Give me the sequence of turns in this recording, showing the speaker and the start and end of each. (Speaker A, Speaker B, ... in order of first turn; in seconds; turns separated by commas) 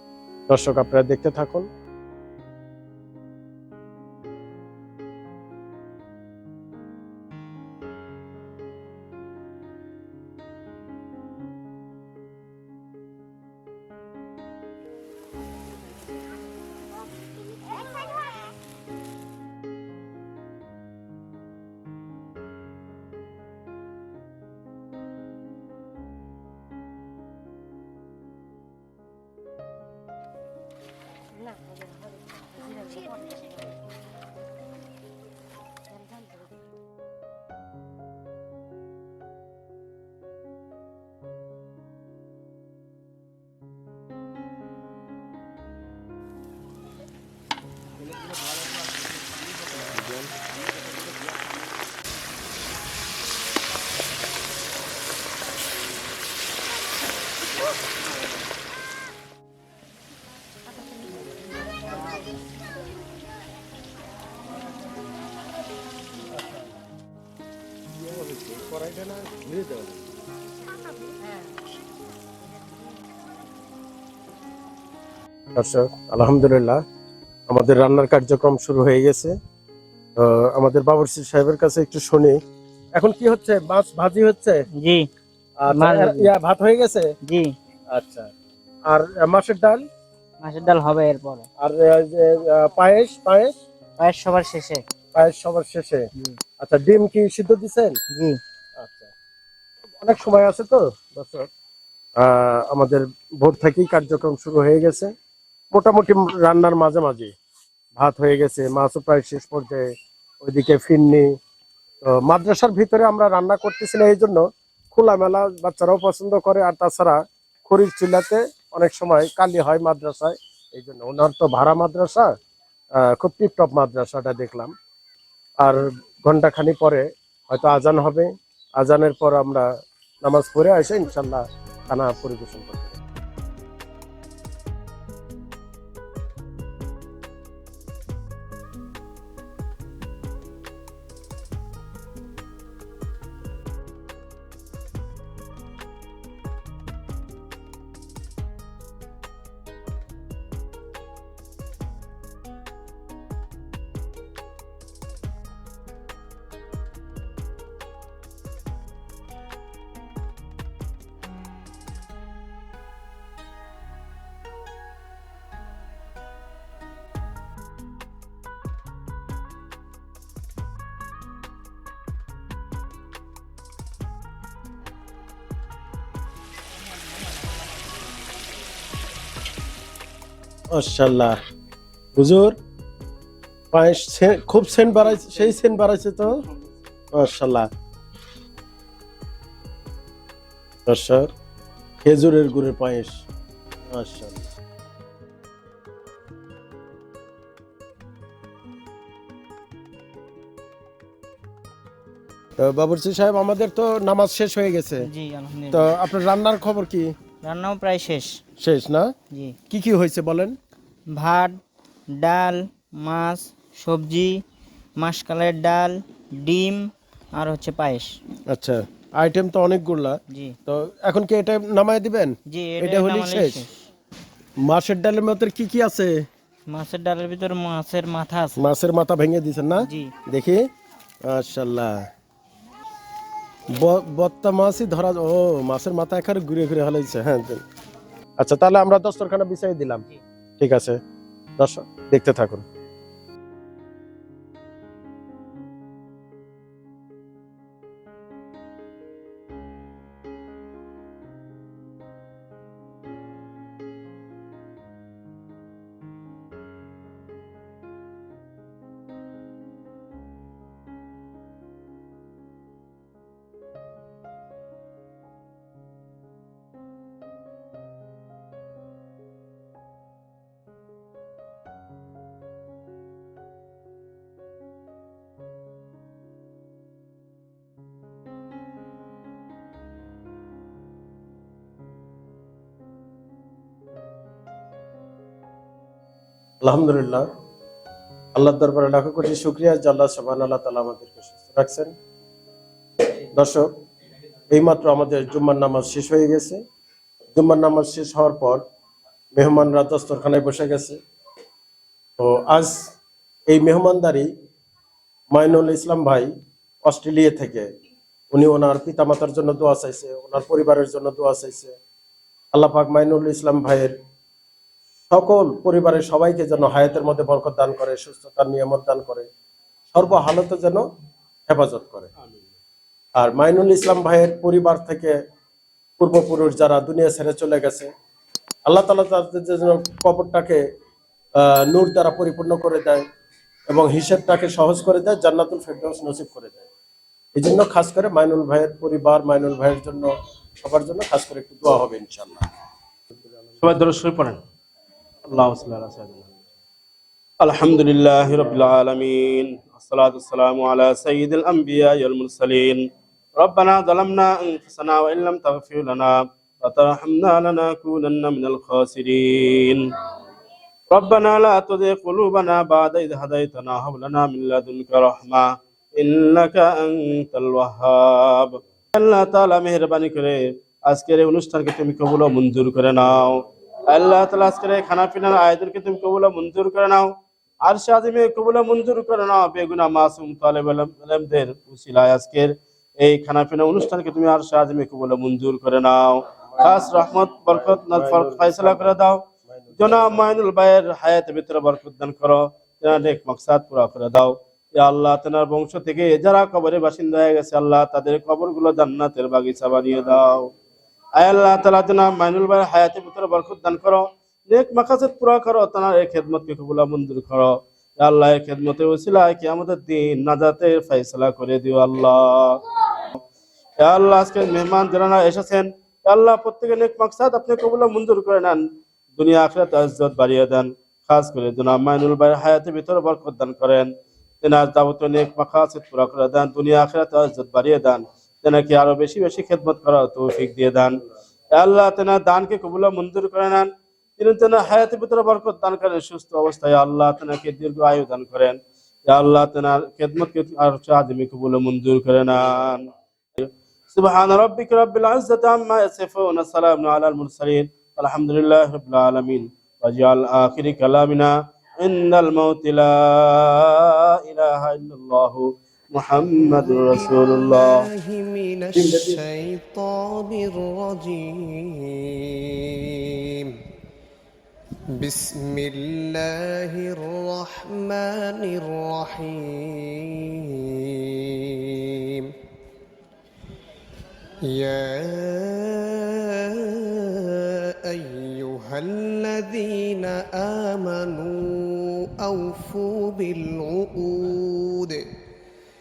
Speaker A: 0.5-1.7, Speaker B: 48.1-49.8, Speaker A: 49.9-50.3, Speaker B: 50.8-51.1, Speaker A: 68.0-69.9, Speaker A: 75.5-76.8, Speaker A: 77.5-79.3, Speaker A: 80.2-82.3, Speaker A: 83.0-84.6, Speaker C: 84.8-85.0, Speaker A: 85.6-87.0, Speaker C: 85.7-86.3, Speaker A: 87.9-88.3, Speaker A: 88.9-89.8, Speaker C: 90.4-91.5, Speaker A: 91.6-93.5, Speaker C: 94.0-94.8, Speaker A: 95.1-96.1, Speaker A: 96.6-98.0, Speaker C: 98.1-98.4, Speaker A: 98.8-99.1, Speaker A: 100.0-101.5, Speaker A: 102.2-105.1, Speaker A: 105.7-107.3, Speaker A: 107.9-109.8, Speaker A: 110.4-111.3, Speaker A: 112.1-122.3, Speaker A: 123.0-124.7, Speaker A: 125.6-129.7, Speaker A: 130.2-133.0, Speaker A: 180.7-181.4, Speaker A: 182.2-182.5, Speaker A: 183.7-186.4, Speaker B: 185.1-185.4, Speaker A: 187.1-187.7, Speaker A: 190.9-191.3, Speaker A: 192.0-193.2, Speaker A: 193.9-194.5, Speaker A: 202.6-205.1, Speaker C: 205.1-205.9, Speaker A: 205.7-207.1, Speaker C: 207.4-208.3, Speaker A: 208.6-209.1, Speaker A: 209.7-210.6, Speaker C: 211.1-211.6, Speaker C: 212.2-214.4, Speaker C: 215.0-218.1, Speaker A: 218.5-223.6, Speaker C: 220.3-220.6, Speaker C: 222.5-223.7, Speaker A: 224.6-226.2, Speaker C: 226.7-228.6, Speaker A: 228.6-230.6, Speaker C: 229.8-230.1, Speaker A: 231.3-232.1, Speaker A: 233.7-237.6, Speaker A: 238.4-240.0, Speaker A: 240.6-241.0, Speaker A: 241.6-242.6, Speaker A: 286.6-287.2, Speaker A: 288.4-291.9, Speaker A: 293.3-293.7, Speaker A: 294.5-296.6, Speaker A: 297.3-298.6, Speaker A: 299.3-301.0, Speaker A: 302.2-302.9, Speaker A: 303.5-304.3, Speaker A: 305.3-306.3, Speaker A: 306.9-307.7, Speaker A: 308.3-311.7, Speaker A: 312.5-313.9, Speaker A: 315.1-319.3, Speaker A: 319.9-320.8, Speaker A: 321.5-322.1, Speaker B: 322.2-322.5, Speaker A: 323.2-325.1, Speaker A: 326.0-327.9, Speaker A: 328.7-330.6, Speaker A: 331.4-333.0, Speaker A: 333.7-336.7, Speaker A: 337.4-342.4, Speaker B: 343.6-344.4, Speaker B: 345.3-346.3, Speaker B: 347.4-352.8, Speaker B: 353.4-359.9, Speaker B: 360.9-377.1, Speaker B: 377.6-389.2, Speaker A: 386.5-390.3, Speaker B: 389.8-400.5, Speaker B: 401.2-413.2, Speaker B: 413.8-418.6, Speaker B: 419.1-431.0, Speaker B: 431.5-457.8, Speaker D: 456.5-463.6, Speaker B: 458.7-459.2, Speaker D: 464.9-472.3, Speaker D: 474.5-485.0